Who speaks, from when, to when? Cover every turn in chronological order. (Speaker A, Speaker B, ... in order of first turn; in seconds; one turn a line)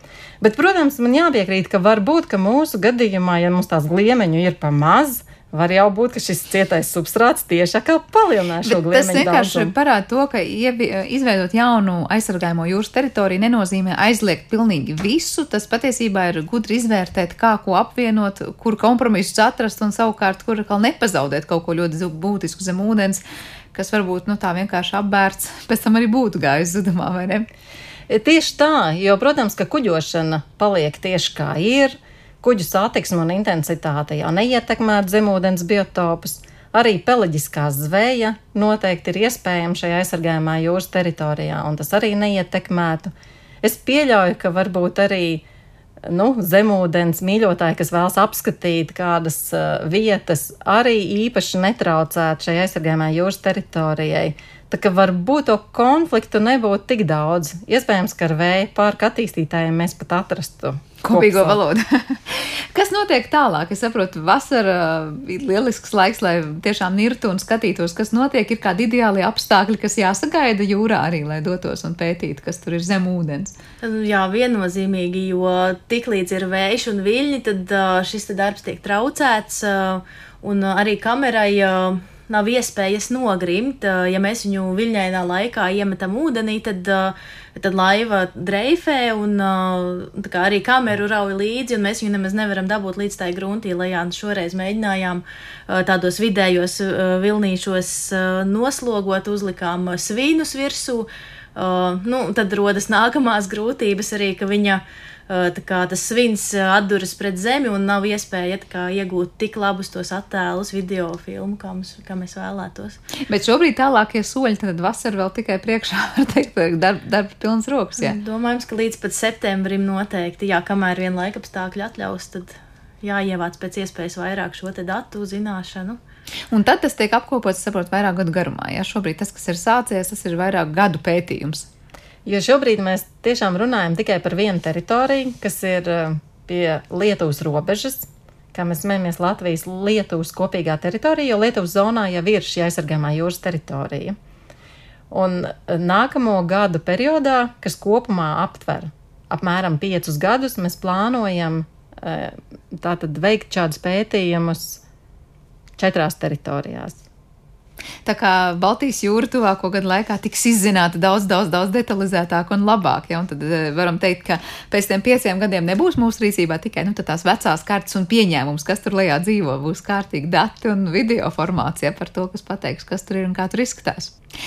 Speaker A: 0.4-9.7
Speaker B: 8.6-23.2
Speaker B: 23.7-27.5
Speaker A: 28.1-43.1
Speaker A: 43.6-45.4
Speaker A: 46.0-61.6
Speaker B: 61.0-73.5
Speaker C: 73.8-113.0
Speaker B: 113.3-118.2
Speaker C: 118.0-126.0
Speaker B: 126.5-131.7
Speaker A: 132.2-144.2
Speaker A: 145.1-154.8
Speaker A: 155.8-157.0
Speaker B: 158.0-174.1